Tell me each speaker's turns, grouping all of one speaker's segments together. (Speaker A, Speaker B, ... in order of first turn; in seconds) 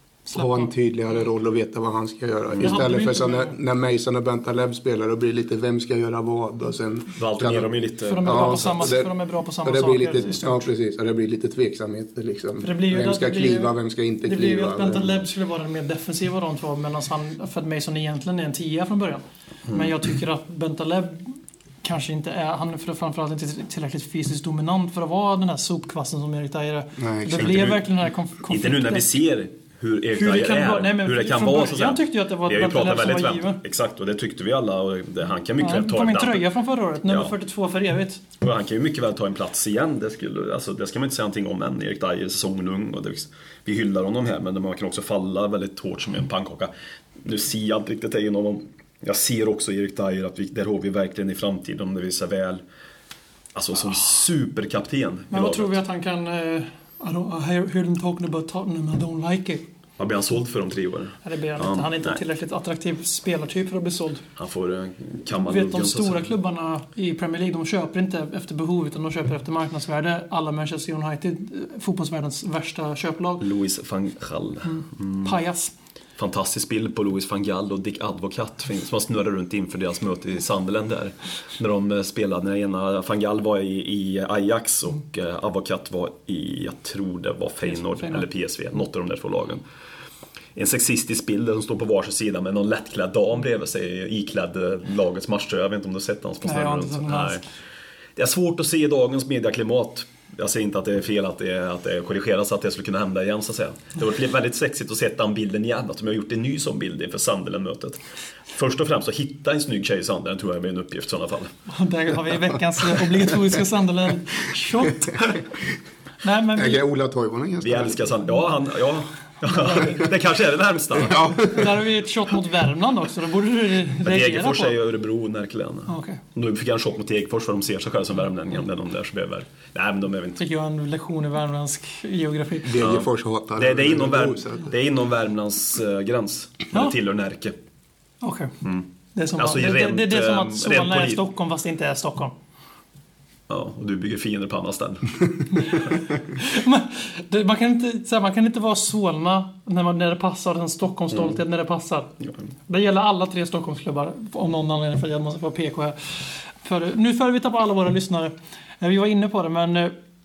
Speaker A: 0.3-0.7, 2.6-3.5, 8.1-10.7, 12.6-29.1, 30.1-33.6, 35.6-38.2, 55.3-59.6, 61.2-64.2, 65.3-73.4, 74.7-75.7, 87.7-88.2, 96.4-97.4, 111.7-115.4, 116.2-116.8, 119.5-120.0, 121.4-124.8, 125.9-126.2, 130.4-132.8, 138.2-138.5, 139.1-142.3, 145.5-152.1, 152.7-159.9
Speaker B: 0.3-7.7, 8.2-9.1, 9.6-15.2, 27.0-27.6, 116.5-118.2, 121.0-121.7, 132.6-134.7
Speaker C: 7.2-8.9, 27.4-27.8, 28.5-36.4, 37.1-37.3, 38.4-46.7, 47.2-52.6, 53.5-55.8, 60.0-62.2, 64.4-66.3, 73.4-75.4, 76.2-89.6, 90.5-97.4, 98.2-108.0, 108.5-111.5, 117.6-121.4, 124.0-130.4, 132.8-137.6, 139.4-141.2, 143.5-145.9, 151.1-151.4